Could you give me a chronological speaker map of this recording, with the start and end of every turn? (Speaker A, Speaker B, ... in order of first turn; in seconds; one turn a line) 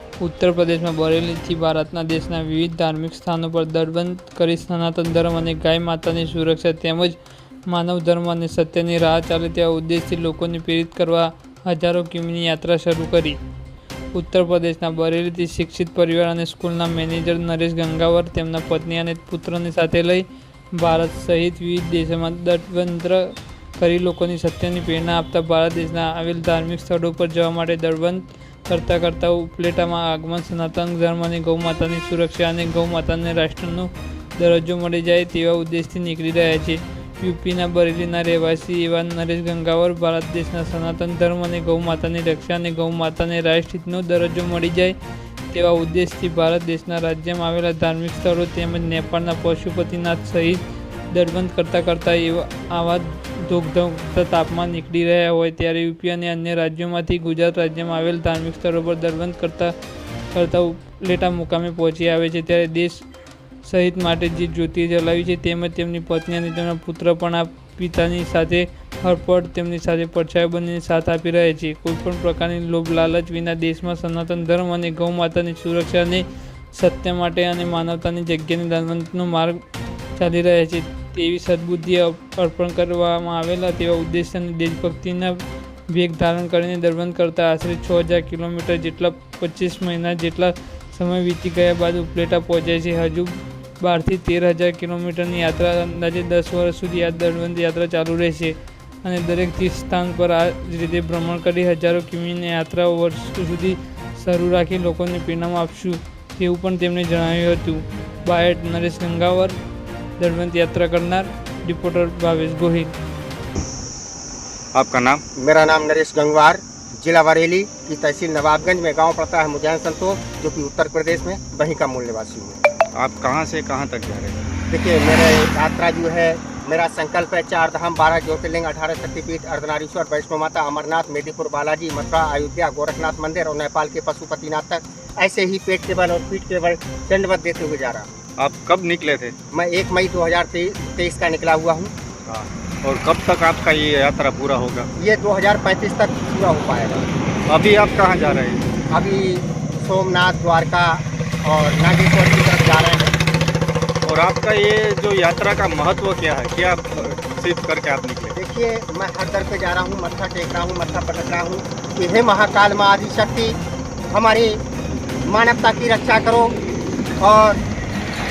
Speaker A: 0.2-7.2
Speaker A: 7.7-13.4
Speaker A: 14.1-45.0
Speaker A: 45.5-59.7
Speaker A: 60.3-63.0
Speaker A: 63.6-79.6
Speaker A: 80.2-109.6
Speaker A: 110.2-112.9
Speaker B: 114.7-115.2
Speaker C: 115.4-122.6
Speaker B: 123.0-124.4
Speaker C: 124.7-138.1
Speaker B: 138.4-139.3
Speaker C: 139.5-141.9
Speaker B: 142.3-144.9
Speaker C: 145.0-147.1
Speaker B: 147.5-148.7
Speaker C: 148.9-153.2
Speaker B: 154.0-158.4
Speaker C: 158.3-163.6
Speaker C: 164.1-164.6
Speaker C: 165.3-166.6
Speaker C: 167.2-167.6